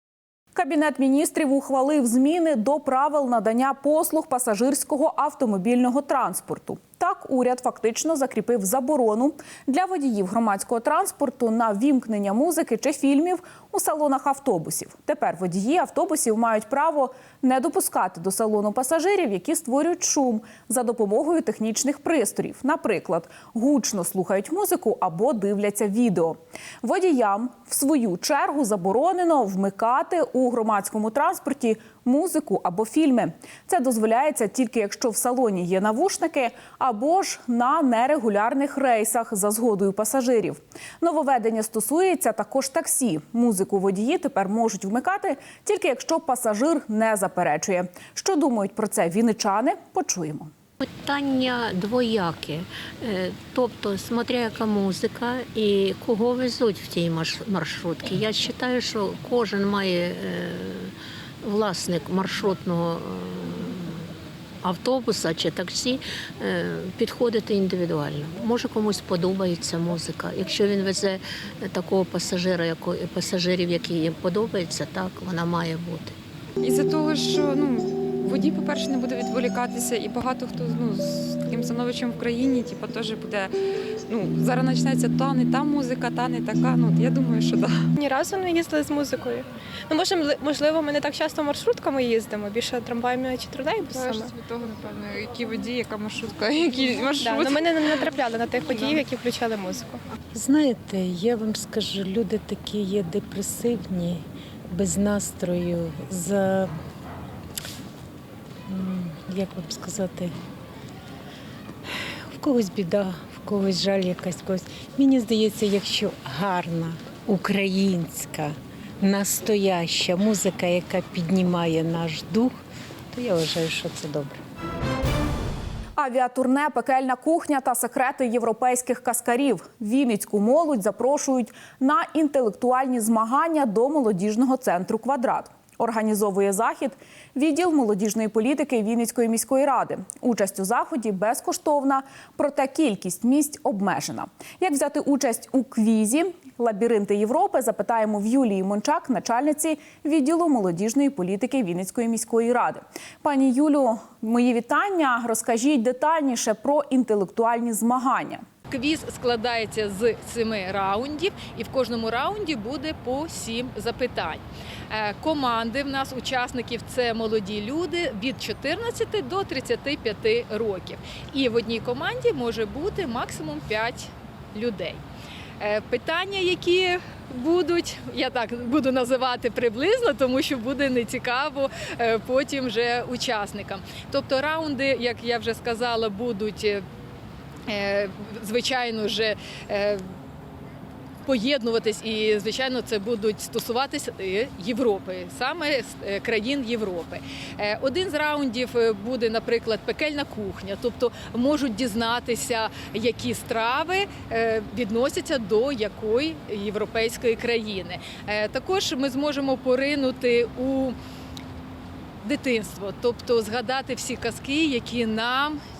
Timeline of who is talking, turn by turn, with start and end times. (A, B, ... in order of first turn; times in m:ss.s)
0:00.5-0:50.5 A
0:50.8-1:04.1 B
1:04.6-1:16.1 B
1:16.6-1:23.5 C
1:24.1-1:27.9 C
1:28.0-1:34.4 D
1:34.5-1:37.6 C
1:36.9-1:40.0 D
1:40.3-1:46.7 E
1:48.7-1:50.3 E
1:52.3-2:02.6 E
2:03.1-2:04.4 E
2:06.0-2:38.4 A
2:38.7-2:55.0 F
2:55.6-3:06.8 F
3:07.7-3:10.0 F
3:11.2-3:30.9 F
3:32.2-3:35.6 F